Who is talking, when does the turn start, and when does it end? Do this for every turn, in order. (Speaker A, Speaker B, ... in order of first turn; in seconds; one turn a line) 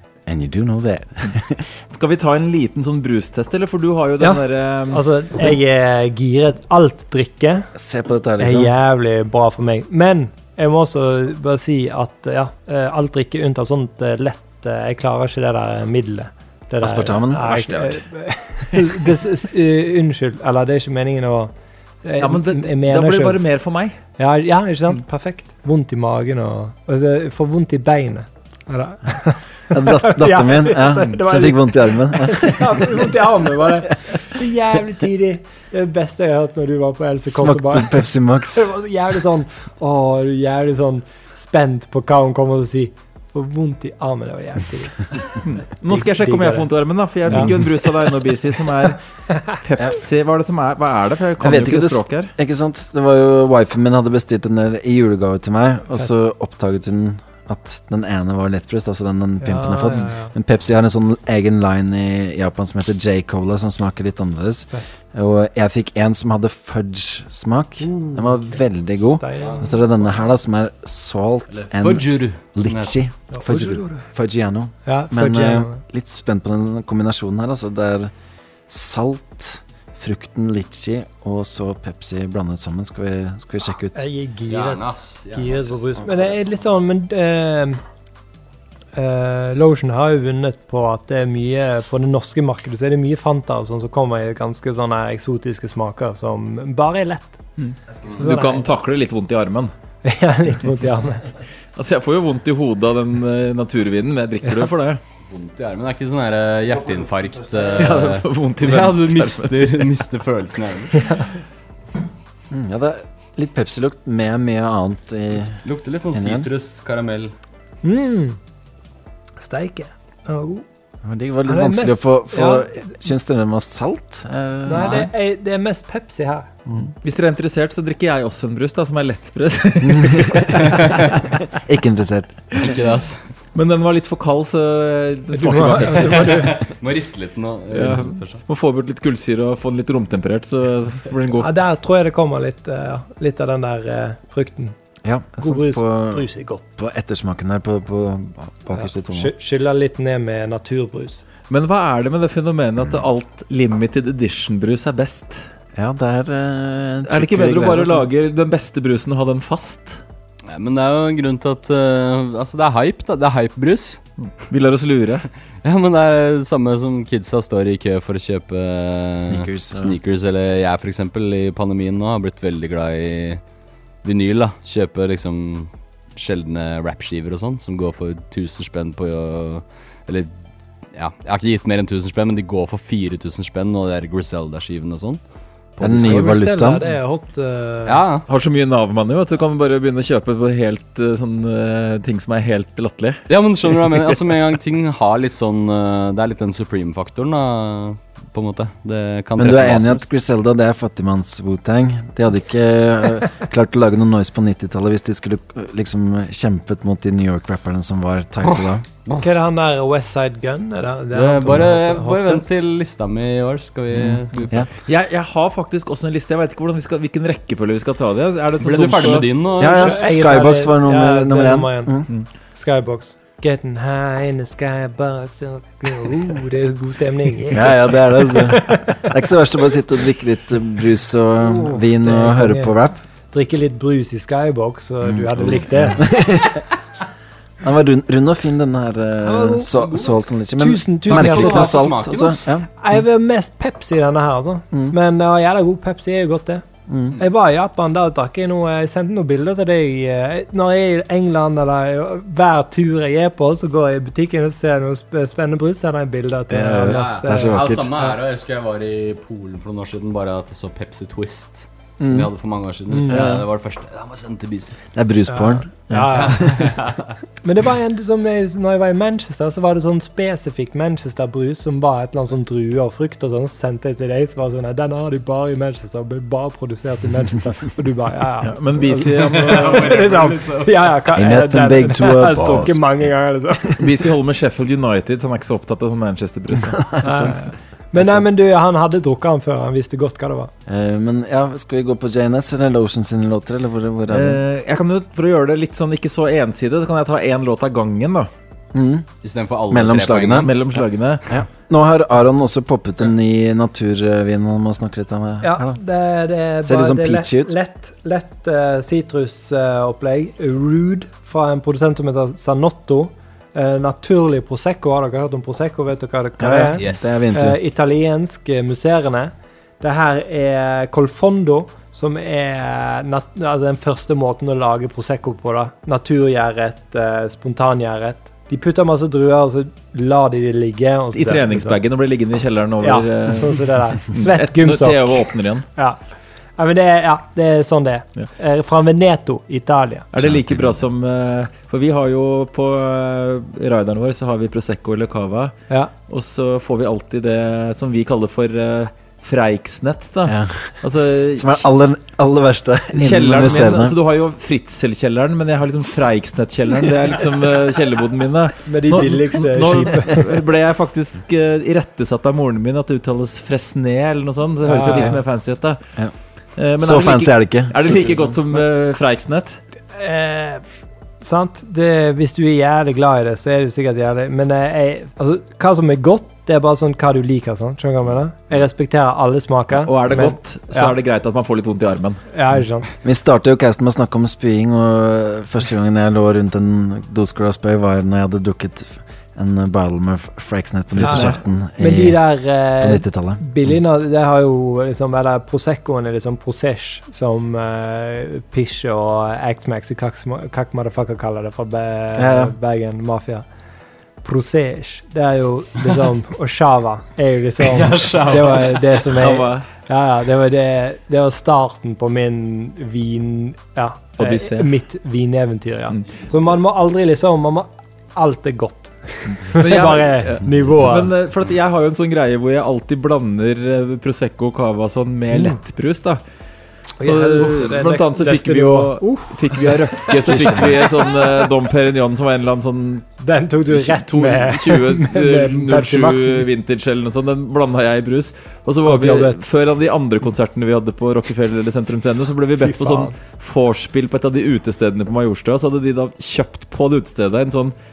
Speaker A: 0.3-1.6
Speaker B: 1.9-5.0
Speaker C: 4.2-7.7
Speaker A: 7.8-8.7
Speaker C: 8.4-21.5
Speaker A: 16.8-17.6
Speaker B: 17.4-18.0
Speaker C: 22.0-23.4
Speaker B: 22.2-24.0
Speaker C: 24.2-45.2
Speaker A: 29.7-33.1
Speaker A: 37.3-38.7
Speaker B: 45.5-49.0
Speaker C: 45.9-46.7
Speaker C: 47.3-47.6
Speaker B: 49.5-52.3
Speaker A: 51.4-78.1
Speaker C: 59.4-60.3
Speaker C: 67.8-69.7
Speaker D: 71.5-72.9
Speaker C: 73.3-74.0
Speaker C: 74.9-75.8
Speaker A: 78.7-84.0
Speaker C: 84.0-87.8
Speaker D: 84.5-86.3
Speaker C: 89.0-97.4
Speaker B: 97.6-99.7
Speaker C: 98.2-98.7
Speaker C: 100.0-101.3
Speaker B: 101.8-105.0
Speaker D: 105.3-111.2
Speaker B: 107.7-109.9
Speaker A: 112.5-115.6
Speaker D: 115.6-117.3
Speaker A: 116.1-116.5
Speaker C: 117.8-118.4
Speaker C: 119.4-120.7
Speaker A: 121.0-125.1
Speaker C: 121.5-122.9
Speaker C: 124.7-126.5
Speaker B: 127.0-131.0
Speaker A: 129.8-130.9
Speaker A: 131.6-132.6
Speaker D: 132.6-133.2
Speaker B: 133.6-136.5
Speaker C: 135.3-136.6
Speaker D: 136.0-138.4
Speaker B: 137.7-141.5
Speaker C: 141.4-144.8
Speaker A: 145.1-146.2
Speaker C: 145.4-146.6
Speaker A: 146.8-149.3
Speaker C: 148.8-151.2
Speaker B: 151.5-155.4
Speaker A: 155.8-158.1
Speaker B: 157.1-160.0
Speaker D: 160.5-164.0
Speaker B: 164.3-165.3
Speaker D: 165.6-173.4
Speaker A: 169.2-170.0
Speaker D: 174.0-180.3
Speaker D: 180.9-185.2
Speaker D: 185.8-186.3
Speaker A: 185.8-186.8
Speaker C: 185.9-188.0
Speaker D: 187.8-188.3
Speaker B: 188.3-194.2
Speaker D: 193.3-200.0
Speaker A: 199.4-208.8
Speaker C: 209.2-212.4
Speaker D: 211.1-214.6
Speaker B: 214.9-219.3
Speaker D: 218.6-220.0
Speaker A: 219.6-222.1
Speaker C: 219.6-222.0
Speaker C: 222.5-229.0
Speaker A: 227.5-233.0
Speaker C: 231.4-232.7
Speaker C: 233.3-236.1
Speaker A: 235.0-236.6
Speaker A: 237.6-242.7
Speaker C: 239.2-241.9
Speaker D: 241.1-242.5
Speaker C: 242.8-246.7
Speaker A: 246.9-247.2
Speaker C: 247.2-257.6
Speaker A: 256.5-257.9
Speaker D: 256.9-264.8
Speaker A: 262.0-262.3
Speaker A: 263.1-263.4
Speaker A: 264.9-266.7
Speaker C: 265.3-266.6
Speaker D: 266.1-267.1
Speaker C: 267.4-283.8
Speaker B: 278.5-279.9
Speaker D: 279.5-280.7
Speaker A: 281.1-282.8
Speaker B: 283.8-287.3
Speaker A: 286.7-287.3
Speaker C: 287.0-290.5
Speaker A: 290.7-294.4
Speaker B: 294.1-298.3
Speaker A: 298.7-299.1
Speaker D: 299.2-300.5
Speaker A: 299.7-300.5
Speaker B: 300.4-301.2
Speaker A: 301.3-305.8
Speaker C: 305.4-331.8
Speaker A: 306.6-307.5
Speaker A: 316.4-317.6
Speaker D: 316.8-317.2
Speaker B: 331.1-335.7
Speaker C: 332.8-336.0
Speaker C: 336.6-340.1
Speaker B: 340.1-345.6
Speaker A: 340.2-340.8
Speaker B: 346.1-351.7
Speaker A: 350.3-350.8
Speaker A: 351.4-354.0
Speaker B: 352.9-365.8
Speaker C: 358.7-360.2
Speaker C: 364.6-365.2
Speaker B: 366.6-369.6
Speaker A: 366.8-368.4
Speaker C: 369.9-370.6
Speaker C: 371.2-380.9
Speaker B: 379.7-382.2
Speaker C: 382.3-382.9
Speaker A: 383.0-393.7
Speaker B: 391.0-391.3
Speaker C: 391.0-403.4
Speaker A: 402.2-402.5
Speaker C: 404.2-421.1
Speaker D: 407.6-408.8
Speaker B: 409.1-409.7
Speaker B: 414.2-414.8
Speaker B: 419.5-426.2
Speaker C: 427.0-431.4
Speaker B: 427.0-433.1
Speaker C: 433.2-436.5
Speaker B: 433.7-447.7
Speaker C: 438.9-439.4
Speaker C: 442.6-443.1